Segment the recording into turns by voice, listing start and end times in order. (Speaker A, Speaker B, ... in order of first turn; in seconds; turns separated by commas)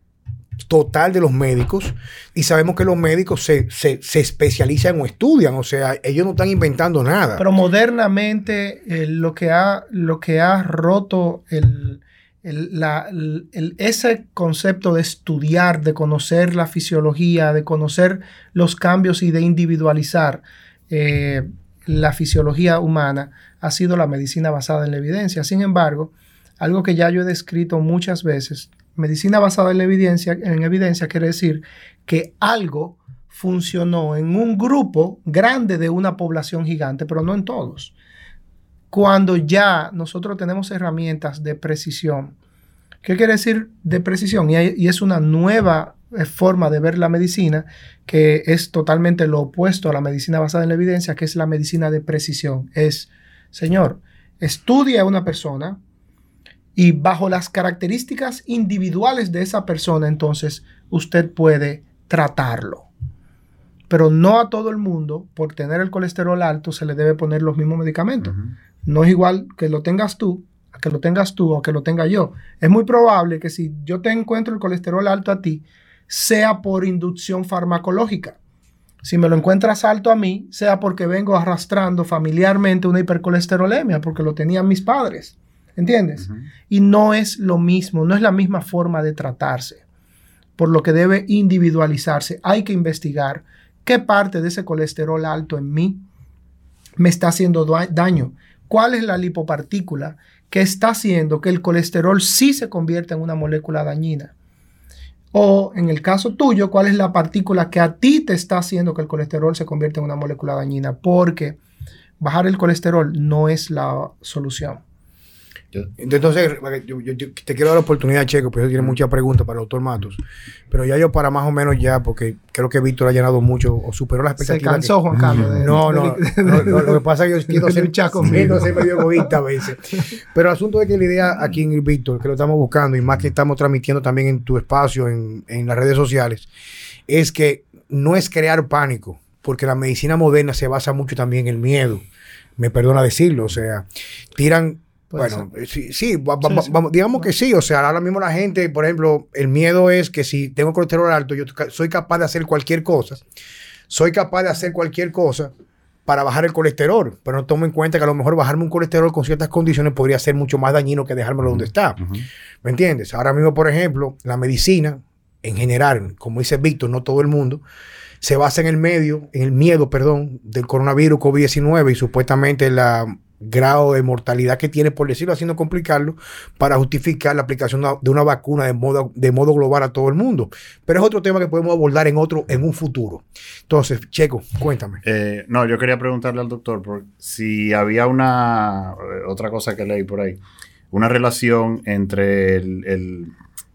Speaker A: 0.7-7.4, Speaker B: 7.4-37.9, Speaker B: 38.9-42.4, Speaker B: 43.0-55.8, Speaker B: 56.8-62.9, Speaker B: 63.9-78.4, Speaker B: 79.0-89.8, Speaker B: 90.6-96.0, Speaker B: 97.0-104.3, Speaker B: 105.3-111.6, Speaker B: 112.2-114.8, Speaker A: 116.0-125.0, Speaker B: 124.4-129.3, Speaker A: 125.5-136.5, Speaker A: 137.1-142.1, Speaker A: 142.6-153.2, Speaker B: 145.1-145.5, Speaker B: 146.4-147.3, Speaker A: 153.9-155.5, Speaker A: 156.1-162.0, Speaker A: 162.6-167.6, Speaker A: 168.2-185.0, Speaker C: 185.0-190.4, Speaker C: 190.9-193.3